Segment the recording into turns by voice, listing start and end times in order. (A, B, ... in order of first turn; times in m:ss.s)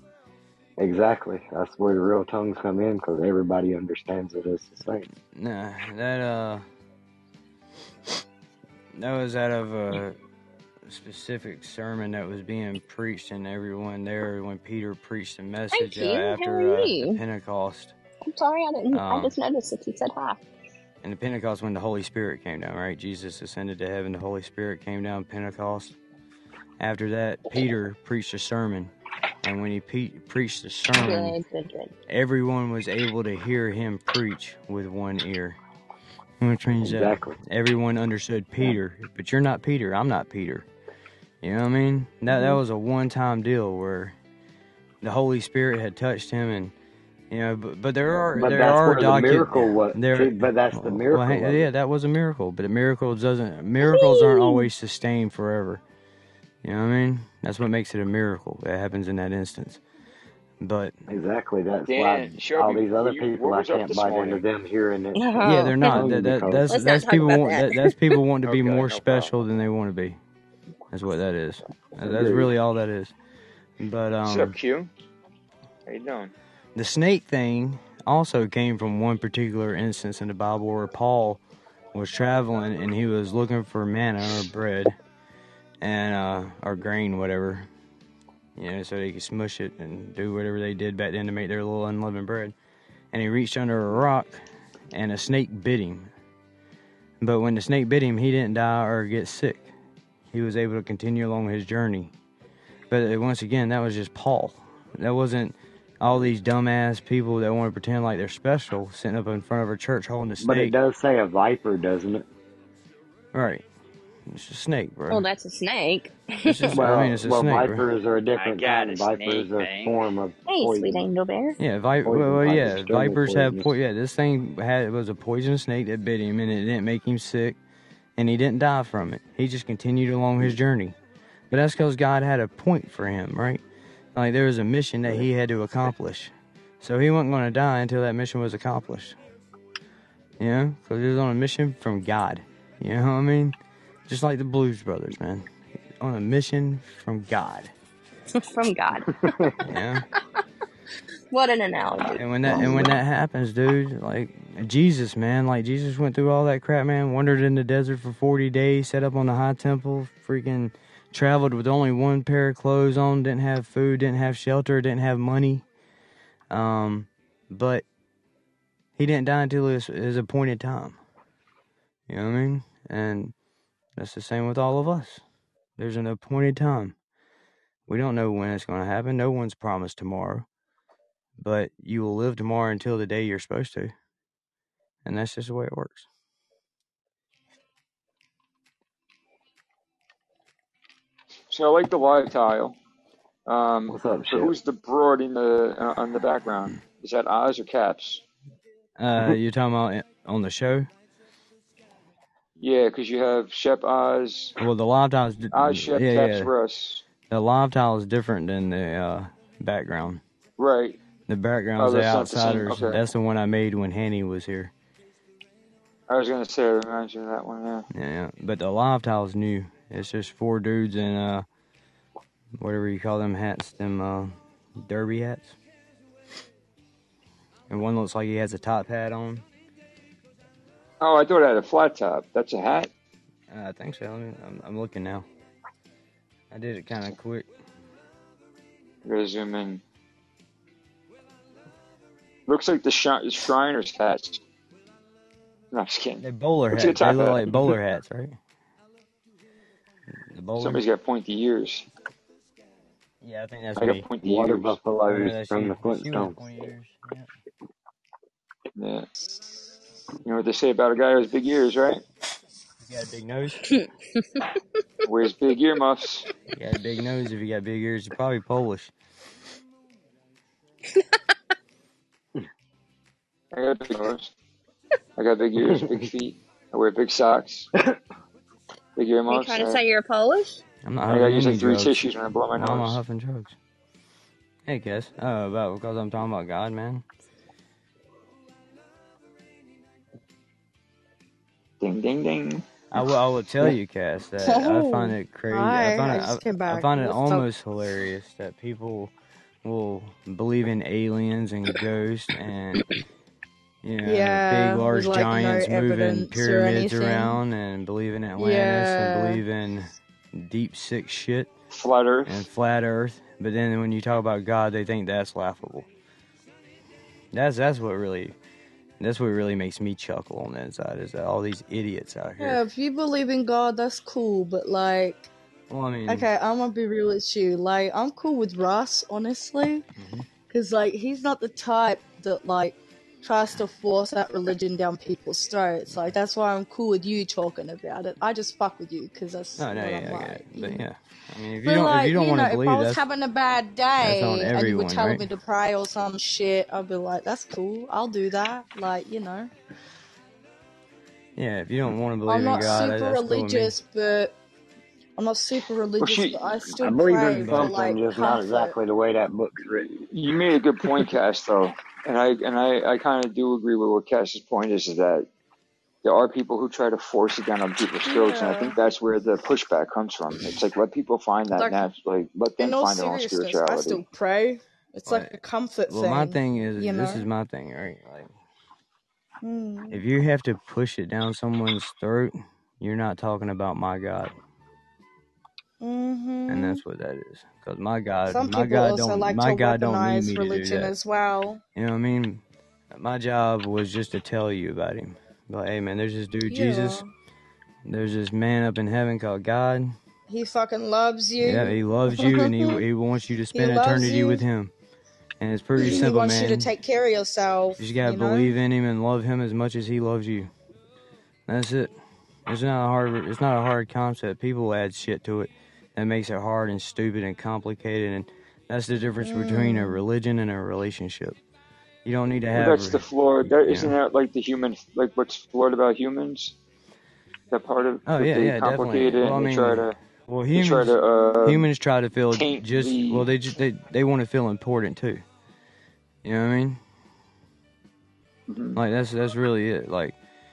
0:00.8-0:05.1 A
0:05.3-0:06.6 B
0:08.9-0:10.2 B
0:10.8-0:18.0 B
0:15.7-0:17.2 C
0:18.2-0:20.4 C
0:18.9-0:19.3 B
0:21.0-0:26.0 B
0:26.8-0:28.9 B
0:29.4-0:31.4 B
0:30.9-0:31.9 C
0:32.1-0:35.6 B
0:36.4-0:40.7 B
0:36.8-0:37.4 A
0:41.4-0:44.1 B
0:45.0-0:46.7 B
0:47.3-0:55.8 B
0:48.3-0:51.7 A
0:53.8-0:54.7 C
0:56.6-0:59.8 B
1:00.6-1:00.9 B
1:01.1-1:06.7 A
1:01.9-1:04.4 D
1:05.2-1:06.0 C
1:05.4-1:10.2 B
1:06.7-1:08.0 C
1:08.4-1:09.3 D
1:10.9-1:13.1 B
1:12.0-1:12.5 A
1:13.8-1:14.6 B
1:14.2-1:14.9 D
1:15.8-1:16.3 D
1:16.8-1:21.4 B
1:21.9-1:24.9 B
1:25.8-1:27.7 B
1:28.6-1:32.5 B
1:33.1-1:36.1 B
1:37.2-1:39.7 B
1:40.3-1:42.1 B
1:42.9-1:50.7 B
1:50.4-1:52.2 A
1:53.3-1:53.6 B
1:54.3-1:55.2 B
1:55.1-1:56.7 C
1:56.4-1:57.8 B
1:56.7-2:01.0 A
1:58.4-2:00.0 D
2:00.4-2:01.6 C
2:01.6-2:07.6 B
2:02.0-2:03.7 A
2:08.2-2:11.0 B
2:11.5-2:13.6 B
2:14.1-2:19.2 B
2:20.4-2:23.6 B
2:24.1-2:27.7 B
2:28.3-2:29.5 C
2:29.2-2:29.5 A
2:29.6-2:30.0 B
2:31.3-2:32.6 C
2:32.2-2:45.6 B
2:32.4-2:33.0 A
2:46.5-2:47.8 B
2:49.0-2:51.0 B
2:52.1-2:53.3 B
2:54.0-2:55.2 B
2:55.8-2:56.9 B
2:57.9-3:00.4 B
3:01.4-3:03.9 B
3:05.0-3:06.1 B
3:11.5-3:12.8 D
3:13.5-3:18.2 D
3:13.9-3:14.5 A
3:19.0-3:20.9 B
3:22.6-3:24.6 D
3:24.6-3:26.5 B
3:25.5-3:27.0 D
3:27.3-3:30.2 B
3:30.6-3:31.0 D
3:31.3-3:34.7 B
3:31.8-3:33.0 D
3:36.1-3:37.8 D
3:37.9-3:41.4 B
3:42.6-3:45.6 B
3:47.7-3:49.4 B
3:51.0-3:52.9 D
3:53.5-3:55.2 B
3:56.5-3:57.5 B
3:59.0-3:59.8 D
4:02.5-4:04.4 D
4:05.7-4:07.7 D
4:06.2-4:08.4 B
4:10.3-4:10.8 B
4:10.6-4:11.8 D
4:13.2-4:14.0 B
4:13.8-4:14.8 D
4:14.2-4:16.4 A
4:15.1-4:17.3 B
4:18.8-4:19.1 D
4:20.2-4:22.0 D
4:22.8-4:23.8 B
4:25.0-4:26.3 D
4:26.5-4:28.9 B
4:33.5-4:34.3 D
4:35.2-4:37.7 D
4:39.0-4:39.8 D
4:39.3-4:40.6 C
4:40.8-4:43.6 B
4:41.1-4:43.0 D
4:44.7-4:47.0 B
4:51.8-4:52.6 D
4:52.9-4:59.1 B
4:54.4-4:57.5 E
4:59.6-5:02.9 B
5:03.8-5:11.5 B
5:04.0-5:07.4 E
5:08.4-5:09.4 E
5:11.7-5:12.4 D
5:12.2-5:15.9 B
5:17.3-5:18.3 B
5:19.0-5:22.6 B
5:22.4-5:25.3 E
5:25.7-5:26.3 B
5:26.1-5:29.8 E
5:30.0-5:30.3 B
5:30.5-5:40.8 E
5:39.6-5:43.0 B
5:41.6-5:49.5 E
5:44.0-5:45.3 B
5:51.4-5:53.7 B
5:52.2-5:54.4 E
5:55.2-5:58.8 E
5:56.0-5:56.6 D
5:56.8-5:59.9 A
5:57.4-5:57.7 B
5:59.8-6:05.3 D
6:06.0-6:14.0 D
6:08.0-6:08.8 E
6:11.5-6:11.9 E
6:12.6-6:17.3 E
6:15.0-6:15.3 B
6:15.9-6:18.3 B
6:19.4-6:20.0 E
6:19.9-6:24.3 B
6:25.8-6:26.8 E
6:26.5-6:30.9 B
6:28.3-6:31.6 E
6:31.7-6:37.0 B
6:36.5-6:37.1 E
6:37.8-6:39.9 B
6:40.3-6:42.8 E
6:41.4-6:44.7 B
6:43.5-6:44.4 E
6:45.4-6:46.7 B
6:45.8-6:48.6 E
6:47.8-6:50.5 B
6:51.5-6:51.9 B
6:52.5-7:01.4 B
6:59.2-7:00.0 E
7:02.0-7:03.0 B
7:02.5-7:06.5 D
7:03.6-7:04.0 B
7:07.5-7:10.0 D
7:08.0-7:15.2 B
7:10.5-7:11.7 D
7:12.3-7:13.3 D
7:16.2-7:16.8 B
7:18.5-7:18.8 D
7:18.7-7:20.2 B